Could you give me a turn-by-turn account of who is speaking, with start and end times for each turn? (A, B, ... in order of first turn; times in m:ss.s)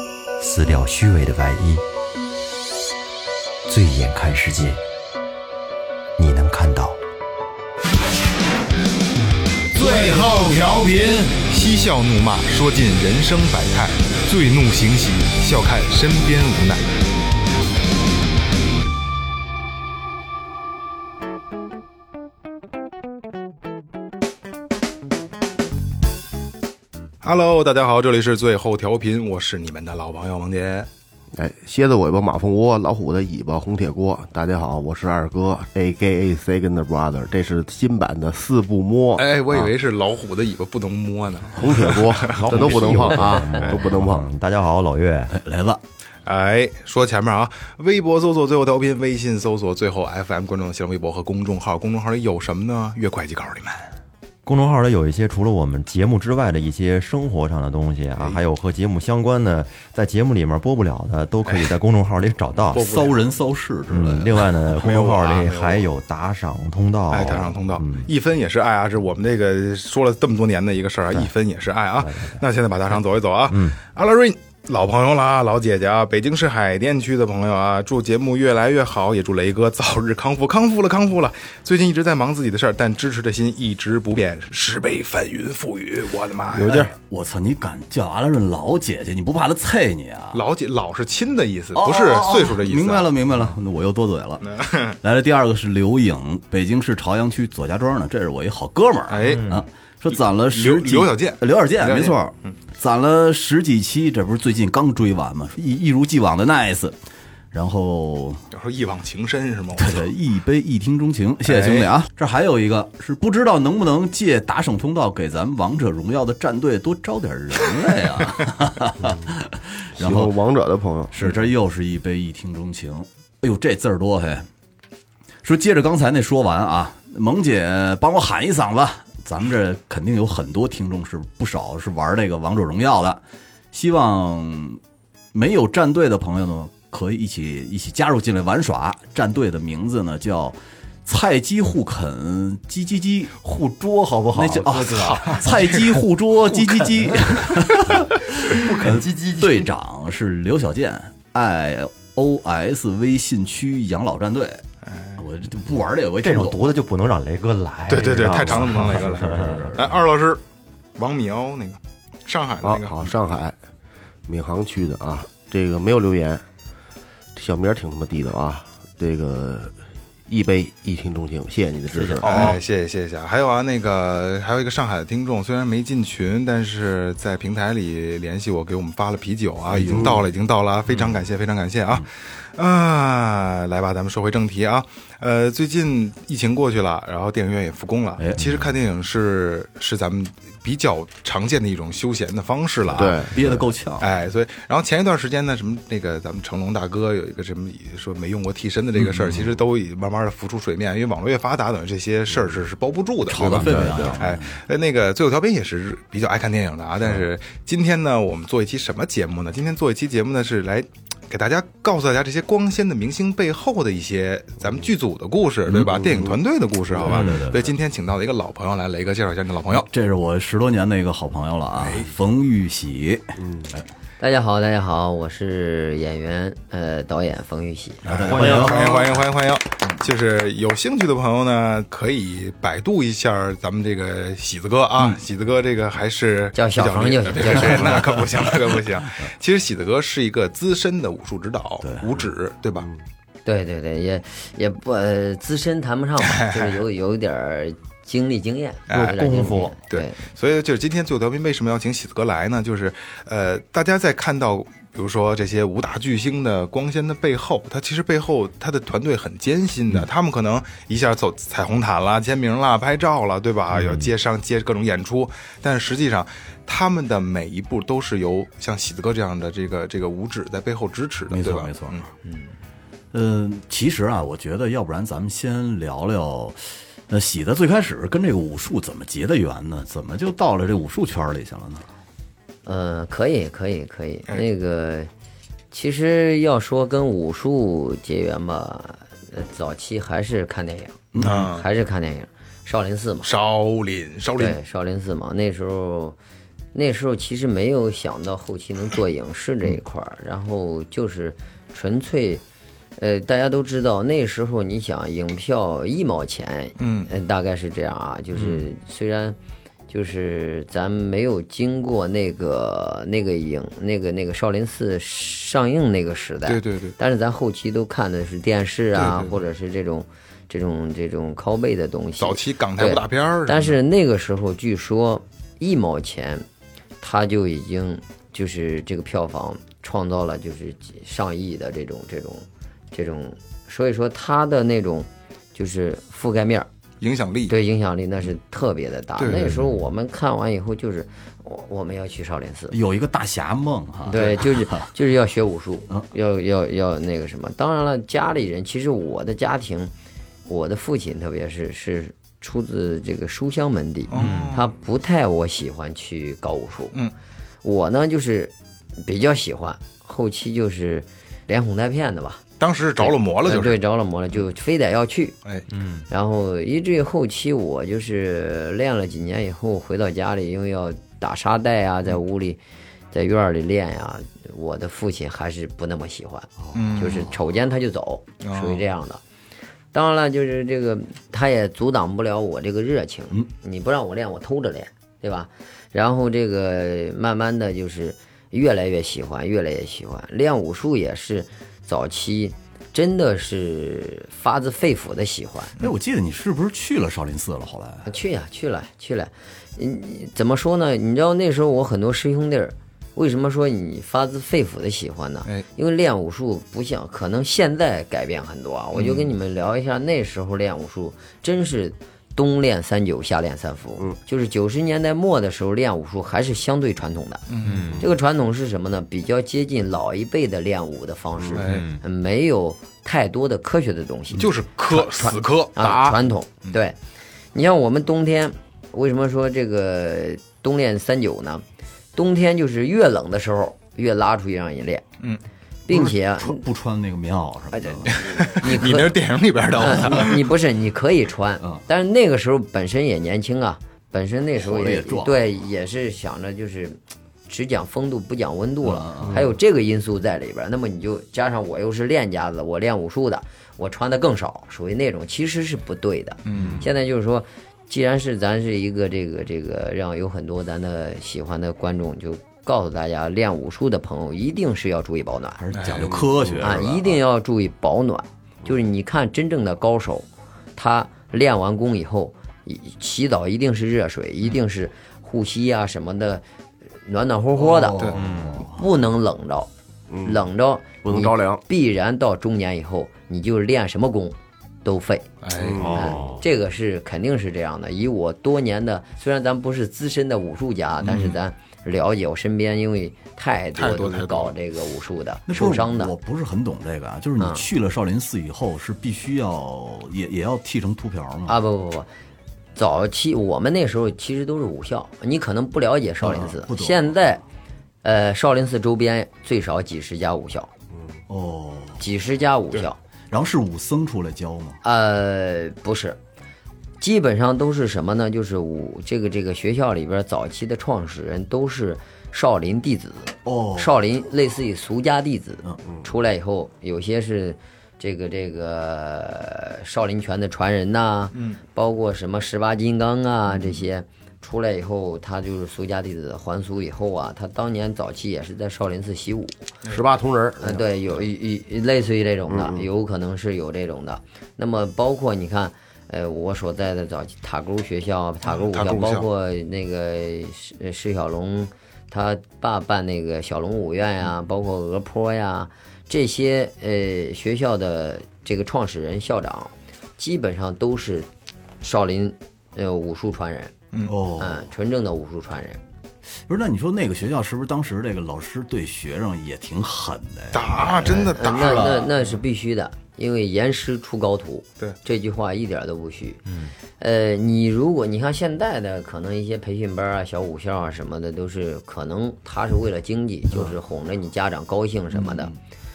0:00.4-0:01.8 A
0:03.6-0:04.8 A
0:06.2-0:07.0 A
0:09.7-0:11.4 B
0:11.5-0:16.9 C
0:27.2-0:30.9 C
0:31.3-0:39.3 D
0:39.2-0:43.8 C
0:41.6-0:44.2 D
0:42.4-0:45.3 A
0:45.3-0:45.8 B
0:46.2-0:53.9 C
0:54.4-1:02.8 A
1:02.7-1:04.5 B
1:02.7-1:03.2 C
1:03.9-1:08.1 A
1:04.7-1:05.9 C
1:07.1-1:26.9 C
1:12.0-1:12.4 A
1:13.5-1:13.8 A
1:26.6-1:30.4 B
1:30.3-1:33.1 C
1:31.7-1:34.5 B
1:34.4-1:35.0 C
1:35.0-1:47.0 B
1:39.1-1:39.6 C
1:39.2-1:39.6 A
1:40.1-1:42.5 C
1:47.5-1:48.4 B
1:48.5-1:50.1 C
1:49.8-2:00.3 B
1:51.5-1:51.9 C
1:59.0-1:59.3 D
2:00.0-2:01.2 D
2:01.1-2:04.4 B
2:05.4-2:14.8 B
2:15.3-2:23.4 B
2:23.4-2:25.7 A
2:24.3-2:34.6 B
2:25.0-2:25.9 C
2:26.5-2:27.4 A
2:28.5-2:29.7 A
2:34.9-2:35.2 C
2:35.2-2:36.6 B
2:36.2-2:39.8 A
2:37.9-2:40.4 C
2:38.1-2:40.0 B
2:41.0-2:43.1 C
2:42.6-2:43.6 D
2:44.2-2:46.4 D
2:47.3-2:49.7 D
2:50.3-2:52.6 D
2:51.9-2:52.6 A
2:52.2-3:13.5 C
2:59.7-3:00.2 B
2:59.9-3:00.2 D
3:00.9-3:01.3 B
3:08.2-3:08.7 B
3:12.9-3:14.1 B
3:13.0-3:13.4 D
3:14.0-3:39.9 C
3:19.0-3:19.5 B
3:23.3-3:24.6 B
3:23.4-3:24.2 A
3:35.9-3:36.3 D
3:37.0-3:37.7 B
3:37.0-3:37.4 A
3:39.7-3:43.8 B
3:41.8-3:42.1 C
3:43.4-3:43.7 D
3:44.2-3:48.0 E
3:48.0-3:49.3 B
3:48.0-4:02.9 C
3:48.2-3:48.8 A
3:56.5-3:58.2 E
3:57.5-3:59.0 B
4:01.8-4:02.2 B
4:03.4-4:10.2 E
4:06.2-4:06.8 C
4:08.9-4:32.0 C
4:08.9-4:09.8 A
4:31.3-4:32.1 B
4:33.1-4:41.8 B
4:42.6-4:45.1 E
4:45.7-4:53.3 E
4:51.1-4:51.5 B
4:51.2-4:51.7 C
4:53.2-4:54.6 C
4:54.4-4:56.2 E
4:56.7-5:02.4 E
5:03.0-5:09.4 E
5:06.8-5:07.1 C
5:09.9-5:26.4 E
5:16.4-5:17.0 C
5:18.9-5:19.4 C
5:22.2-5:23.8 C
5:27.0-5:36.7 E
5:37.0-5:37.6 C
5:37.5-5:42.8 E
5:39.2-5:39.6 C
5:42.7-5:44.8 B
5:44.1-5:49.9 E
5:44.1-5:44.4 C
5:50.4-5:57.0 E
5:54.1-5:54.6 C
5:54.1-5:54.6 A
5:57.6-6:02.4 E
6:02.6-6:03.8 C
6:03.0-6:05.4 E
6:05.7-6:06.0 A
6:06.1-6:12.6 E
6:13.1-6:19.2 E
6:16.6-6:17.2 B
6:16.7-6:17.3 C
6:18.4-6:18.8 C
6:19.9-6:35.7 E
6:35.8-6:38.1 B
6:38.0-6:57.4 E
6:48.9-6:49.3 C
6:57.5-6:58.0 C
6:57.6-6:58.1 A
6:58.0-7:07.0 E
7:01.5-7:01.9 C
7:01.6-7:02.0 A
7:04.4-7:06.1 C
7:07.5-7:11.6 E
7:12.1-7:15.0 E
7:15.9-7:16.6 E
7:15.9-7:18.2 B
7:17.7-7:19.2 E
7:18.1-7:20.4 C
7:19.8-7:45.6 E
7:19.8-7:20.2 B
7:24.6-7:25.4 B
7:28.8-7:29.5 B
7:36.4-7:36.8 C
7:36.5-7:36.8 B
7:45.6-7:47.2 B
7:45.7-7:46.2 C
7:46.1-7:46.6 D
7:46.6-7:56.4 E
7:57.0-7:59.7 E
7:57.6-7:58.8 B
7:58.1-7:58.6 A
8:00.1-8:00.5 D
8:00.2-8:05.2 E
8:01.0-8:01.6 D
8:05.4-8:06.0 C
8:05.6-8:06.1 D
8:05.8-8:06.4 A
8:05.9-8:16.1 E
8:11.0-8:11.4 B
8:13.8-8:14.5 C
8:15.5-8:21.6 B
8:17.4-8:17.6 E
8:21.5-8:22.1 E
8:22.8-8:27.4 E
8:26.2-8:27.1 B
8:28.0-8:30.7 E
8:31.3-8:32.0 B
8:32.0-8:33.0 E
8:33.3-8:34.8 B
8:34.8-8:36.2 E
8:37.0-8:59.6 E
8:43.4-8:44.0 B
8:51.3-8:51.6 C
8:59.9-9:00.8 D
9:00.6-9:21.3 E
9:02.5-9:02.9 D
9:08.4-9:09.3 C
9:21.8-9:23.7 E
9:24.0-9:24.6 B
9:24.4-9:25.8 E
9:26.5-9:32.1 B
9:30.5-9:32.0 C
9:31.3-9:36.4 E
9:36.5-9:36.7 A
9:37.0-9:45.5 E
9:45.1-9:45.5 B